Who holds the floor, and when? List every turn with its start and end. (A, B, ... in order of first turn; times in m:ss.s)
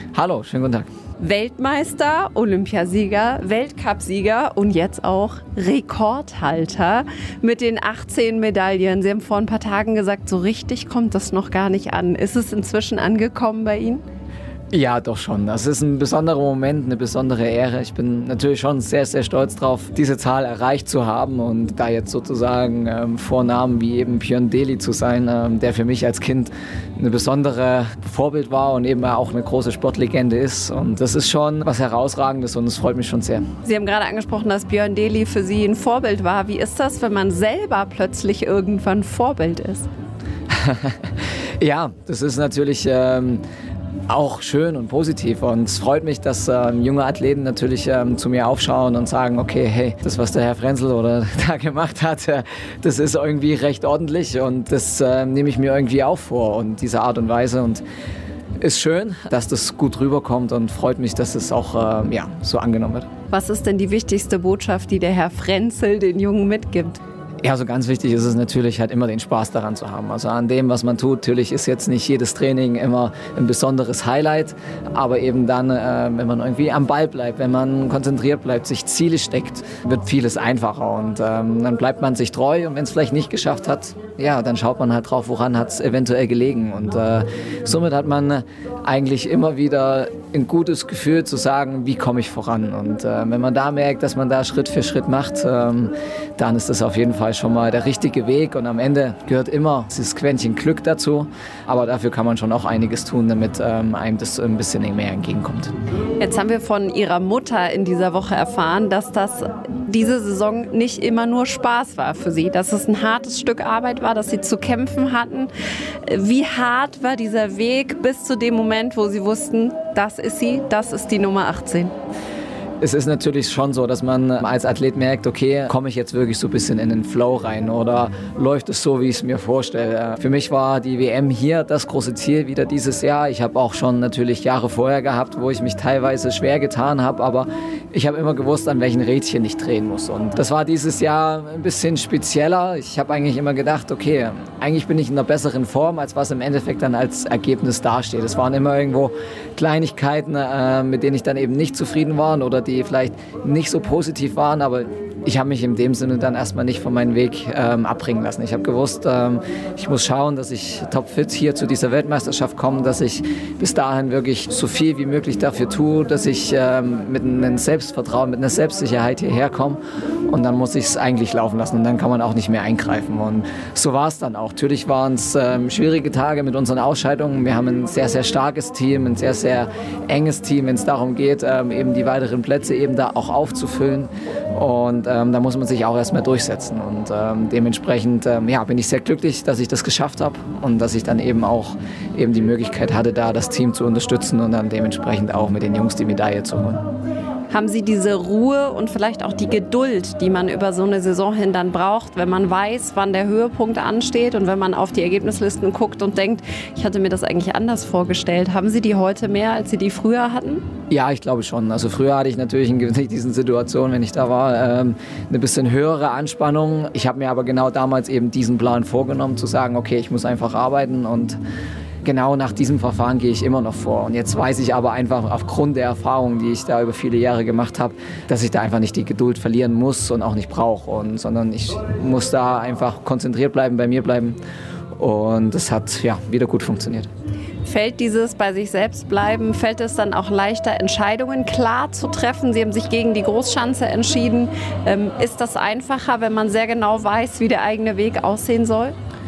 0:00.1-0:00.9 A
0:01.2-0:14.0 B
0:14.7-0:33.5 A
0:33.6-0:39.9 B
0:40.5-0:41.0 A
0:41.6-0:43.4 A
0:44.1-0:57.8 A
0:58.6-1:03.1 A
1:03.3-1:07.0 B
1:07.4-1:45.7 A
1:46.2-1:55.5 B
1:56.0-2:01.9 B
2:02.8-3:16.8 A
3:17.5-3:30.6 B
3:30.9-3:41.4 A
3:42.0-3:54.4 A
3:55.0-3:57.1 A
3:57.6-4:09.0 B